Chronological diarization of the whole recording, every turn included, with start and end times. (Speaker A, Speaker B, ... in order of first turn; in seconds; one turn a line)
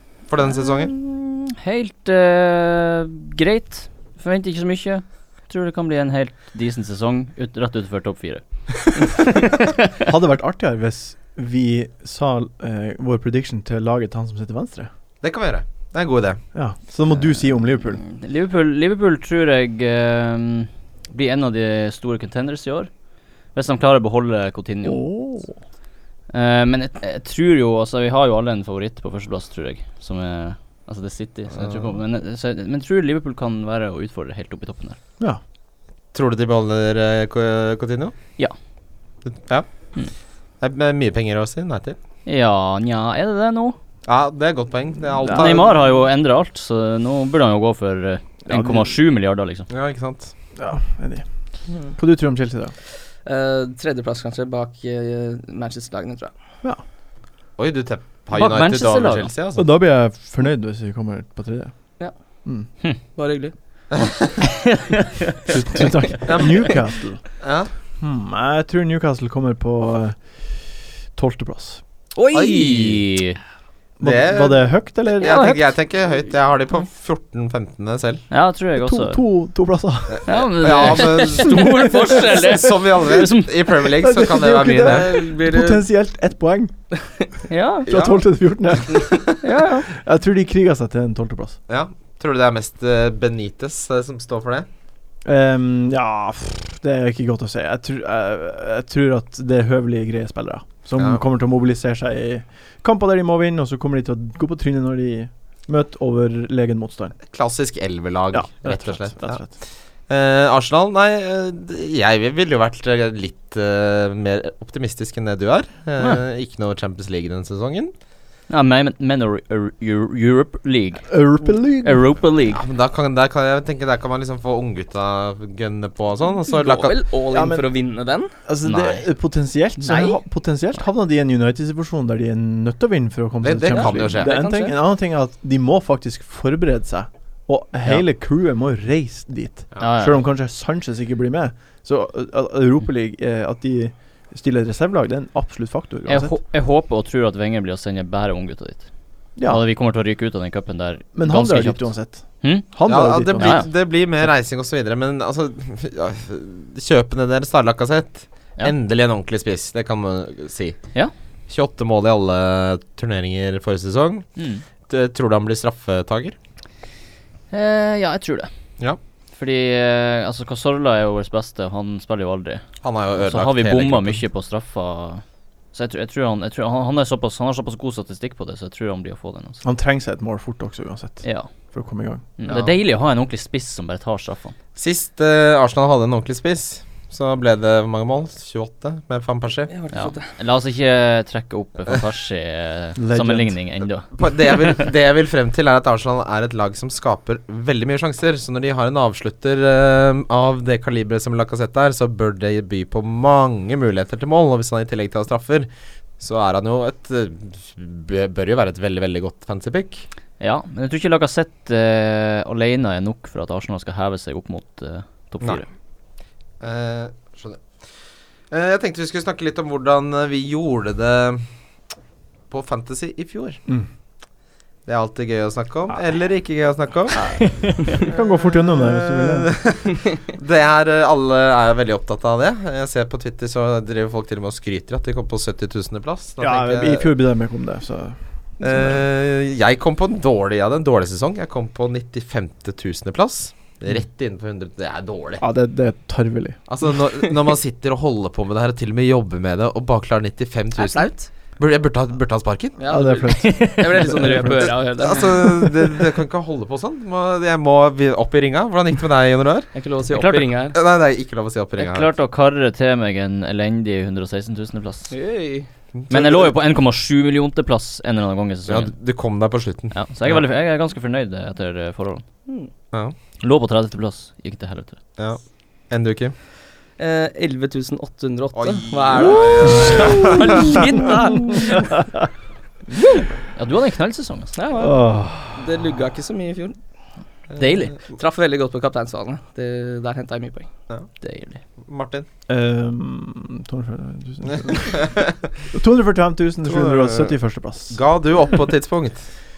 Speaker A: 0.3-0.9
Speaker B: 0.9-8.4
Speaker B: 8.9-9.9
Speaker C: 10.0-14.9
Speaker A: 15.2-16.4
Speaker C: 16.5-18.0
Speaker B: 18.1-22.9
Speaker B: 23.6-25.1
Speaker C: 24.8-25.6
Speaker B: 26.3-35.0
Speaker A: 31.5-31.9
Speaker A: 36.1-38.1
Speaker A: 39.2-39.7
Speaker A: 40.6-42.0
Speaker B: 42.3-43.8
Speaker A: 44.1-45.8
Speaker C: 45.2-45.6
Speaker B: 45.3-49.7
Speaker C: 48.5-48.9
Speaker A: 49.7-50.3
Speaker C: 50.6-51.2
Speaker C: 52.0-52.7
Speaker D: 53.2-56.3
Speaker A: 57.6-59.7
Speaker B: 58.3-59.3
Speaker C: 59.6-61.7
Speaker D: 63.2-63.5
Speaker B: 64.4-65.5
Speaker C: 65.5-67.2
Speaker A: 66.2-66.6
Speaker A: 67.4-67.7
Speaker C: 68.0-71.8
Speaker B: 72.2-73.4
Speaker A: 72.3-73.0
Speaker C: 74.0-75.6
Speaker A: 74.0-78.2
Speaker B: 78.3-79.2
Speaker C: 78.8-80.3
Speaker B: 80.3-83.8
Speaker A: 80.6-85.2
Speaker C: 81.5-82.5
Speaker C: 84.0-86.7
Speaker D: 84.8-85.8
Speaker B: 87.5-87.9
Speaker A: 87.9-88.2
Speaker C: 87.9-89.3
Speaker B: 89.4-89.9
Speaker C: 89.9-91.6
Speaker A: 91.7-94.7
Speaker C: 95.2-107.2
Speaker A: 107.3-109.5
Speaker C: 108.3-109.5
Speaker A: 110.1-117.9
Speaker B: 118.5-121.2
Speaker C: 121.1-122.1
Speaker B: 121.8-122.6
Speaker A: 122.5-126.9
Speaker D: 126.5-128.3
Speaker C: 127.3-127.6
Speaker C: 128.5-146.3
Speaker B: 128.6-129.1
Speaker A: 133.4-134.3
Speaker D: 133.8-134.8
Speaker B: 139.8-140.2
Speaker B: 146.1-148.9
Speaker C: 149.4-149.6
Speaker B: 149.4-151.8
Speaker C: 151.2-153.6
Speaker A: 152.9-160.8
Speaker B: 153.4-153.7
Speaker A: 161.5-164.3
Speaker B: 164.4-164.6
Speaker A: 164.9-166.4
Speaker B: 167.5-168.5
Speaker B: 169.3-172.7
Speaker A: 172.8-174.2
Speaker B: 173.2-179.6
Speaker C: 179.6-182.2
Speaker B: 182.4-184.6
Speaker A: 182.5-182.7
Speaker A: 184.8-189.7
Speaker D: 189.7-190.3
Speaker B: 189.9-194.1
Speaker C: 193.0-193.6
Speaker A: 194.2-210.1
Speaker B: 210.4-215.7
Speaker A: 216.6-217.6
Speaker A: 218.5-221.4
Speaker A: 222.5-223.6
Speaker A: 224.9-227.5
Speaker C: 227.2-229.5
Speaker A: 228.0-237.1
Speaker C: 236.4-238.9
Speaker A: 238.6-245.4
Speaker C: 245.4-246.6
Speaker A: 246.7-252.8
Speaker D: 250.8-251.3
Speaker D: 252.8-255.4
Speaker C: 252.9-254.8
Speaker B: 253.3-254.4
Speaker A: 255.0-259.7
Speaker D: 259.7-260.8
Speaker B: 260.1-260.5
Speaker A: 260.7-262.1
Speaker B: 261.8-265.1
Speaker D: 265.1-265.7
Speaker A: 265.9-266.6
Speaker B: 266.1-268.9
Speaker A: 268.7-270.4
Speaker B: 269.9-272.2
Speaker B: 273.4-275.0
Speaker A: 275.2-276.3
Speaker D: 277.0-282.0
Speaker A: 278.5-280.9
Speaker D: 282.9-283.3
Speaker B: 283.6-284.6
Speaker D: 284.6-286.8
Speaker C: 284.8-285.6
Speaker B: 287.6-288.0
Speaker D: 288.1-290.7
Speaker B: 291.2-291.6
Speaker A: 291.8-292.3
Speaker C: 292.5-295.1
Speaker A: 294.5-295.4
Speaker C: 295.7-298.0
Speaker A: 296.6-297.4
Speaker A: 297.9-299.3